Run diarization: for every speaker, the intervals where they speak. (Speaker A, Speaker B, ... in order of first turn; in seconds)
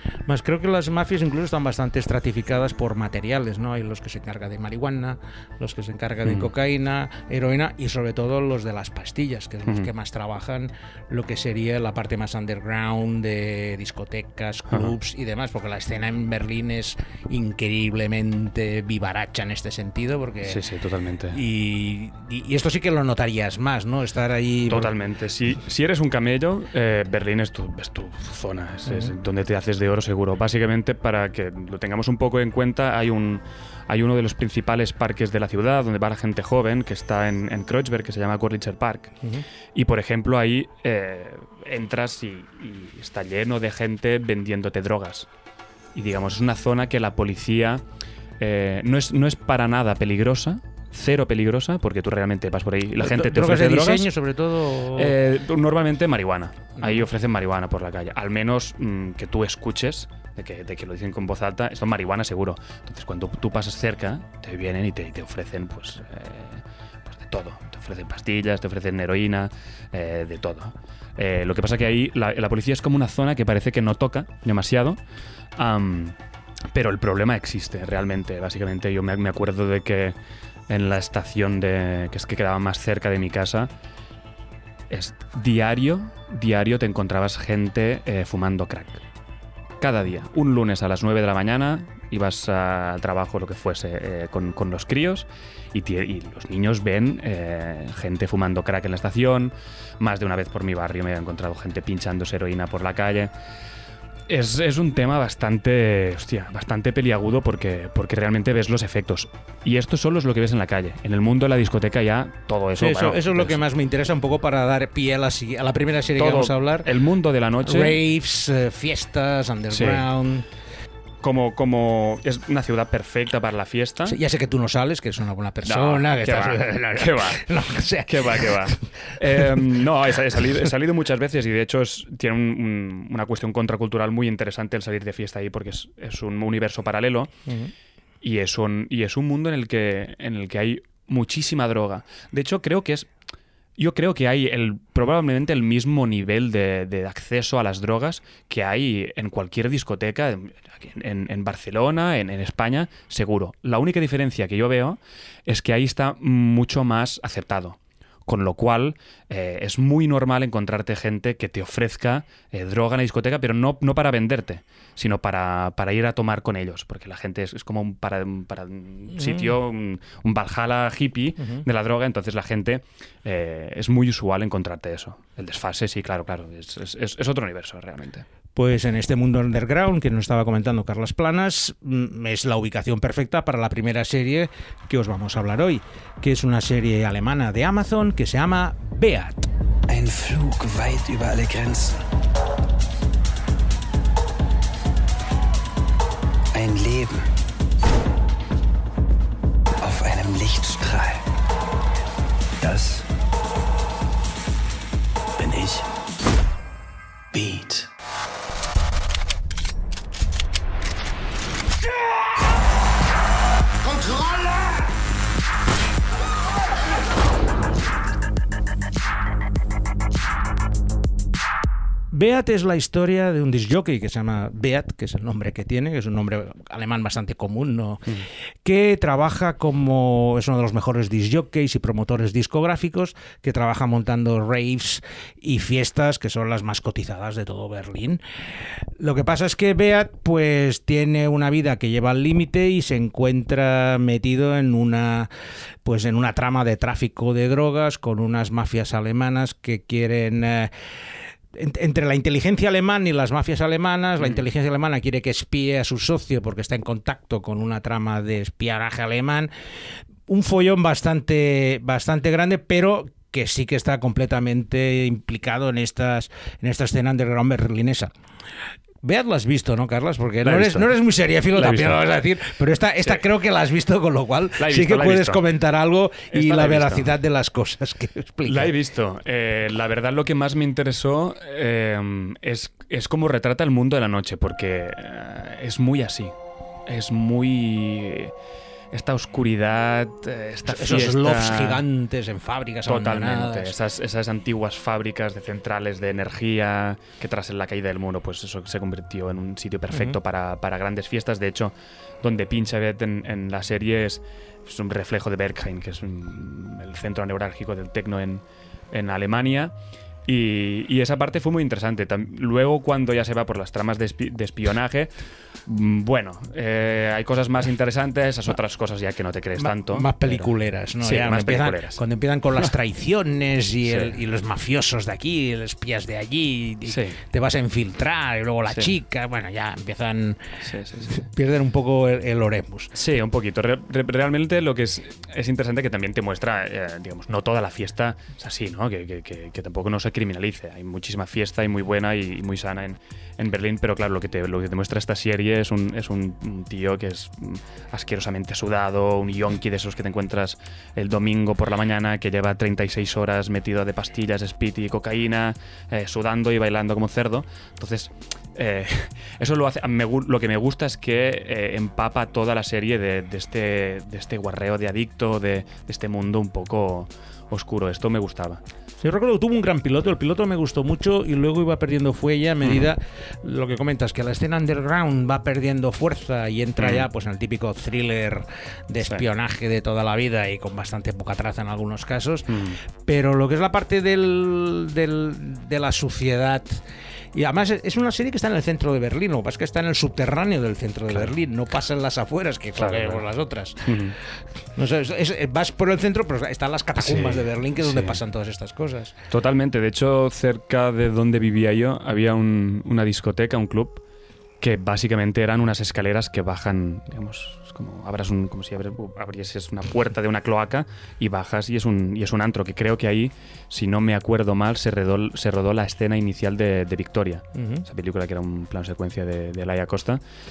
Speaker A: 0.3-20.6, 21.3-24.9, 28.9-29.1, 53.0-55.1, 112.8-116.9, 117.6-120.5, 124.0-128.8, 137.5-137.7, 178.6-189.5, 222.1-238.2, 239.0-245.3, 245.8-250.7, 251.5-259.5, 260.3-268.1, 269.0-278.7, 290.6-293.7, 319.6-332.9, 369.0-386.8, 387.4-394.1, 394.8-399.1, 417.6-417.8
Speaker B: 20.5-21.4, 24.7-39.1, 39.8-45.3, 45.9-47.8, 48.4-54.1, 54.9-75.0, 75.6-76.2, 76.7-80.2, 80.7-83.7, 84.9-89.0, 89.8-103.3, 104.3-113.6, 116.2-118.0, 119.7-120.1, 121.2-124.2, 125.6-127.5, 128.1-137.3, 138.2-143.1, 143.8-178.2, 270.4-270.9, 271.6-272.1, 274.6-275.4, 276.3-277.1, 278.5-286.4, 286.9-288.3, 288.9-291.8, 292.9-309.8, 310.2-315.1, 315.6-320.5, 321.0-322.0, 323.9-324.1, 326.9-327.2, 330.6-331.2, 332.9-368.6, 376.8-377.1, 382.5-382.8, 392.8-393.2, 393.8-394.1, 397.0-398.2, 399.3-404.0, 404.6-420.2
Speaker C: 189.9-192.0, 196.5-197.3, 199.8-201.2, 202.6-203.1, 205.4-205.9, 207.3-207.9